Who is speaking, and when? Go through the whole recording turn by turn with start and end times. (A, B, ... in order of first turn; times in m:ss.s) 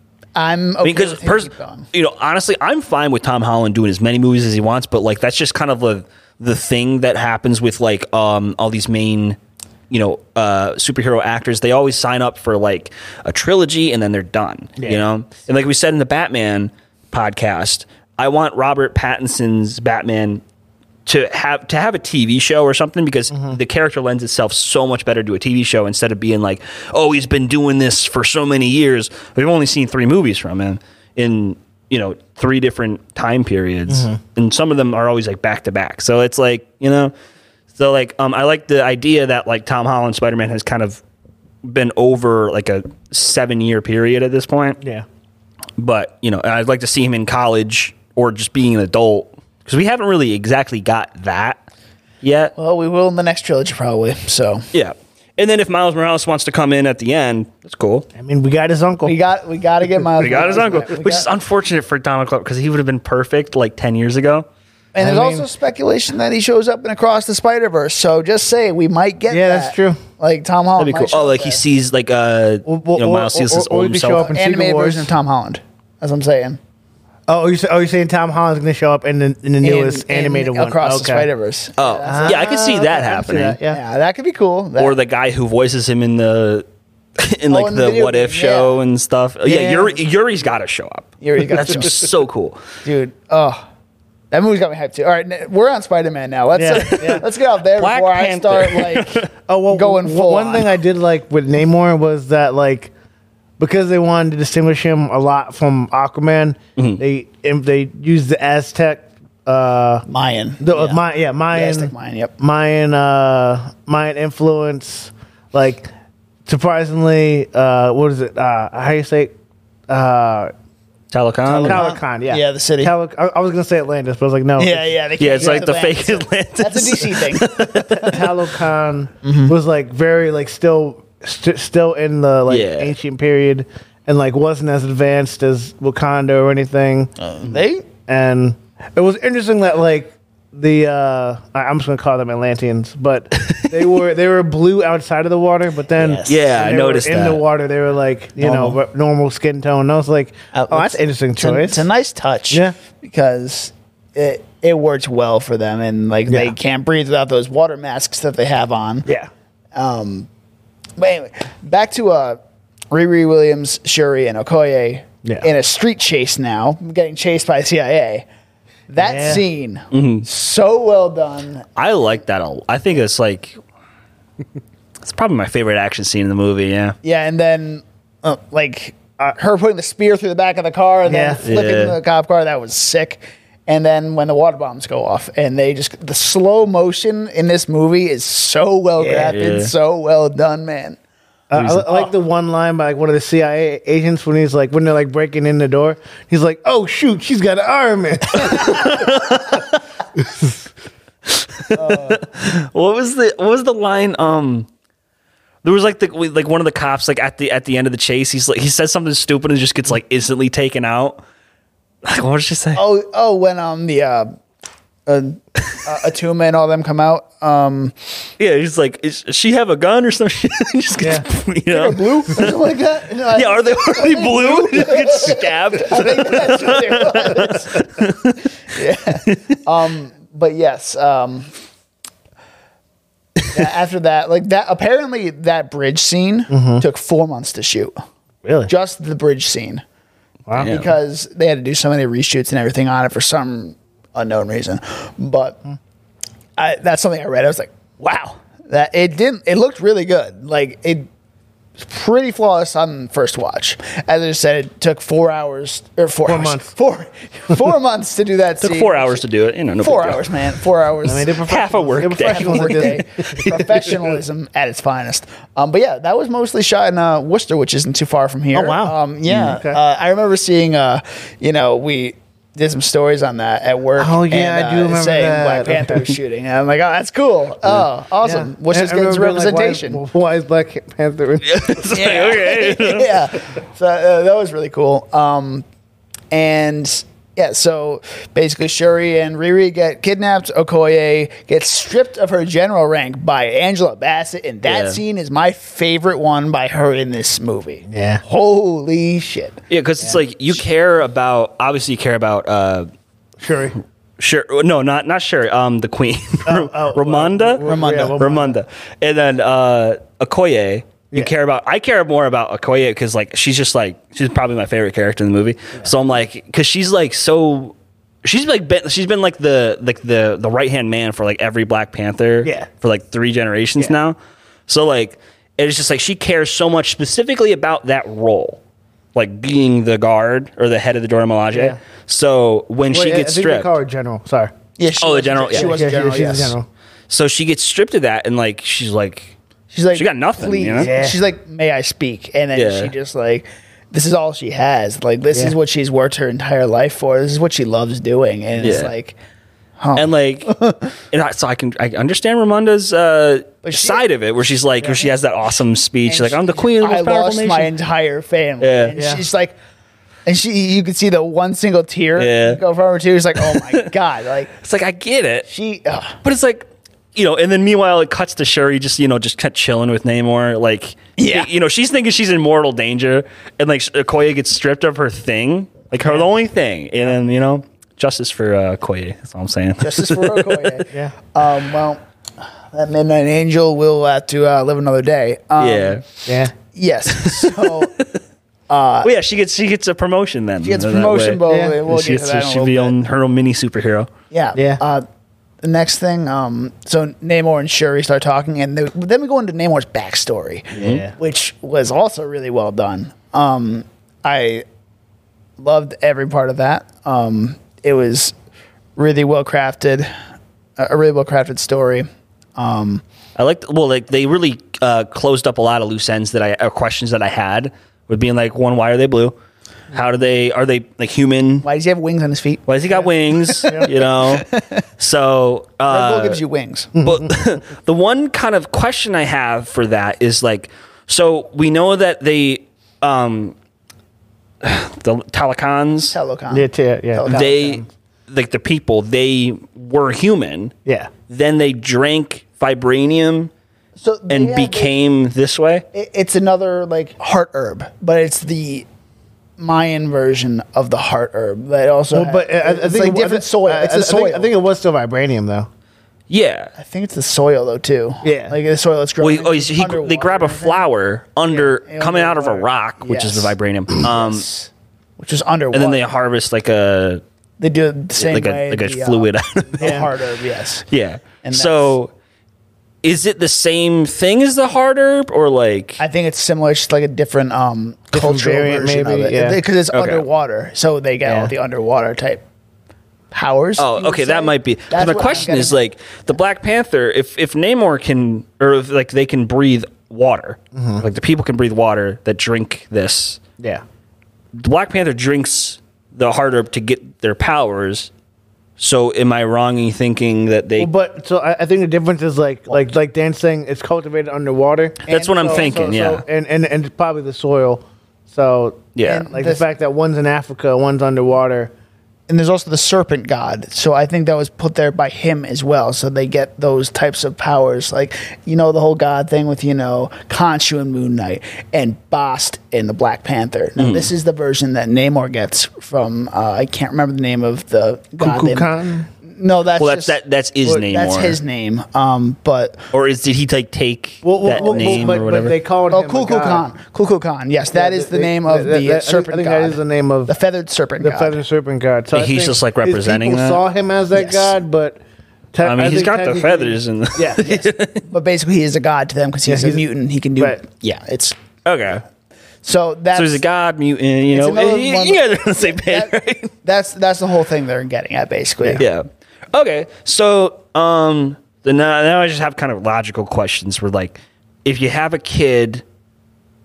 0:00.4-0:01.9 A
0:00.8-0:09.4 B
0:09.9-0:20.4 B
0:14.8-0:15.0 C
0:21.1-0:37.1 B
0:23.3-0:23.6 C
0:33.9-0:34.2 C
0:37.7-0:41.0 B
0:41.6-0:44.8 B
0:44.8-0:45.1 C
0:45.8-0:51.6 B
0:52.2-0:52.5 B
0:52.6-0:54.7 A
0:54.7-0:58.1 B
0:58.2-0:59.2 C
0:59.0-1:01.3 A
1:00.2-1:04.5 B
1:00.3-1:00.8 C
1:04.9-1:11.6 A
1:05.0-1:05.5 C
1:09.3-1:10.0 C
1:10.8-1:14.3 B
1:12.6-1:15.1 C
1:14.1-1:16.6 A
1:17.3-1:21.3 C
1:19.6-1:25.0 A
1:21.8-1:23.6 B
1:22.0-1:23.8 C
1:24.8-1:26.6 B
1:27.2-1:32.6 B
1:27.5-1:28.8 A
1:29.5-1:29.8 A
1:29.5-1:29.9 C
1:31.2-1:32.1 A
1:32.8-1:33.7 A
1:34.3-1:40.8 A
1:36.5-1:37.2 C
1:37.8-1:39.3 B
1:39.5-1:42.9 C
1:43.6-1:50.0 C
1:50.1-1:52.3 A
1:50.6-1:55.9 C
1:56.5-1:59.3 C
1:59.9-2:00.5 C
2:01.1-2:01.8 B
2:01.5-2:02.9 A
2:01.6-2:05.6 C
2:04.6-2:07.5 A
2:05.2-2:08.3 B
2:07.9-2:17.1 C
2:09.2-2:09.6 A
2:12.5-2:13.0 B
2:17.2-2:17.9 A
2:18.1-2:31.8 C
2:23.4-2:23.7 B
2:26.0-2:26.5 A
2:26.3-2:27.4 B
2:28.4-2:28.8 A
2:30.5-2:39.1 A
2:39.7-2:40.3 A
2:41.0-2:42.4 A
2:42.9-2:48.3 A
2:48.9-2:51.7 A
2:49.0-2:49.4 C
2:49.9-2:50.3 B
2:51.8-2:53.6 B
2:55.0-2:57.0 B
2:57.0-3:11.0 A
3:01.1-3:01.4 C
3:01.4-3:02.0 B
3:09.0-3:09.3 C
3:09.2-3:09.7 B
3:11.5-3:19.1 C
3:11.6-3:11.9 B
3:11.9-3:12.1 A
3:18.4-3:19.8 B
3:20.2-3:20.6 C
3:21.3-3:24.7 B
3:21.7-3:22.2 A
3:25.6-3:31.2 B
3:32.0-3:32.8 B
3:32.8-3:34.4 A
3:35.1-3:38.0 A
3:38.4-3:42.4 B
3:41.0-3:41.2 C
3:41.7-3:47.9 A
3:43.3-3:48.5 B
3:48.7-3:51.5 A
3:49.2-3:49.6 B
3:53.5-3:57.9 A
3:56.5-3:56.8 C
3:58.4-3:58.7 C
3:58.7-3:59.8 A
4:00.5-4:00.8 C
4:00.6-4:00.9 B
4:00.6-4:05.6 A
4:06.6-4:11.1 A
4:11.8-4:19.2 A
4:16.3-4:16.7 C
4:18.6-4:20.4 B
4:19.8-4:21.4 A
4:21.0-4:24.0 C
4:21.4-4:23.6 B
4:22.2-4:40.0 A
4:28.5-4:29.8 C
4:29.3-4:29.6 B
4:34.0-4:36.1 C
4:38.2-4:41.6 C
4:41.4-4:43.4 B
4:41.9-4:45.6 A
4:46.3-4:59.6 A
4:54.6-4:55.0 B
4:57.9-4:58.2 C
4:59.7-5:02.9 B
5:03.4-5:03.8 C
5:04.2-5:24.2 B
5:06.5-5:08.6 C
5:07.6-5:08.2 A
5:24.7-5:28.6 B
5:29.2-5:33.7 B
5:32.9-5:34.5 C
5:34.8-5:36.6 A
5:35.0-5:35.9 B
5:35.5-5:36.7 C
5:37.1-5:39.3 B
5:39.7-5:49.2 A
5:39.9-5:40.9 B
5:40.8-5:41.2 C
5:42.5-5:42.9 B
5:48.6-5:48.9 B
5:49.8-5:50.9 A
5:50.0-5:50.5 B
5:51.1-5:57.7 B
5:53.6-5:54.0 A
5:56.1-5:59.6 A
5:58.6-5:58.9 B
5:58.9-5:59.2 C
6:00.3-6:04.5 A
6:02.2-6:02.6 B
6:03.4-6:03.9 B
6:04.5-6:05.5 B
6:05.5-6:06.2 A
6:06.2-6:20.8 B
6:11.2-6:11.5 A
6:19.8-6:26.0 A
6:25.6-6:26.0 B
6:26.3-6:26.5 C
6:26.6-6:27.9 A
6:27.1-6:28.2 B
6:28.7-6:29.1 A
6:29.0-6:34.1 B
6:30.6-6:33.0 A
6:31.5-6:31.8 C
6:34.3-6:35.1 A
6:34.6-6:34.8 C
6:35.6-6:44.6 A
6:40.8-6:41.1 C
6:40.8-6:41.0 B
6:45.6-6:48.3 A
6:49.0-6:50.1 A
6:50.8-6:53.0 A
6:53.4-6:59.4 B
6:59.9-7:01.7 B
7:01.6-7:04.8 A
7:02.7-7:06.4 B
7:05.9-7:06.9 A
7:07.0-7:07.5 C
7:07.0-7:13.6 B
7:14.6-7:16.2 B
7:16.1-7:17.8 A
7:16.5-7:17.7 C
7:17.3-7:20.7 B
7:20.8-7:21.1 C
7:21.3-7:23.5 B
7:24.0-7:24.9 A
7:24.3-7:25.8 B
7:25.9-7:28.9 A
7:29.6-7:34.5 A
7:32.1-7:35.7 C
7:36.3-7:36.7 B
7:36.8-7:40.8 A
7:38.2-7:38.6 C
7:39.2-7:44.4 B
7:41.5-7:46.1 A
7:45.7-7:47.2 B
7:47.6-7:50.9 A
7:48.2-7:50.1 B
7:49.8-7:50.1 C
7:50.9-7:52.1 B
7:51.4-7:52.0 A
7:53.0-7:56.0 B
7:56.0-8:02.4 A
7:58.1-7:59.6 C
7:59.9-8:00.2 B
8:01.2-8:01.5 C
8:03.3-8:05.8 A
8:03.8-8:13.4 B
8:10.8-8:11.0 C
8:14.5-8:18.1 B
8:18.8-8:20.9 B
8:20.8-8:31.7 C
8:25.1-8:25.9 A
8:25.1-8:26.2 B
8:29.0-8:29.3 B
8:29.0-8:29.6 A
8:32.3-8:48.7 A
8:43.8-8:44.1 B
8:48.2-8:49.1 C
8:49.2-8:50.2 A
8:49.8-8:51.4 B
8:50.8-8:52.9 A
8:52.9-8:55.6 B
8:54.2-8:56.6 C
8:54.5-8:55.1 A
8:55.9-9:01.4 A
8:57.7-9:00.3 C
9:01.0-9:05.0 C
9:02.1-9:03.6 B
9:04.1-9:04.6 A
9:05.5-9:07.5 C
9:05.6-9:08.0 B
9:08.1-9:11.4 A
9:09.5-9:09.8 C
9:11.6-9:12.0 B
9:12.6-9:13.4 A
9:13.1-9:16.5 B
9:14.3-9:18.8 A
9:18.8-9:25.8 B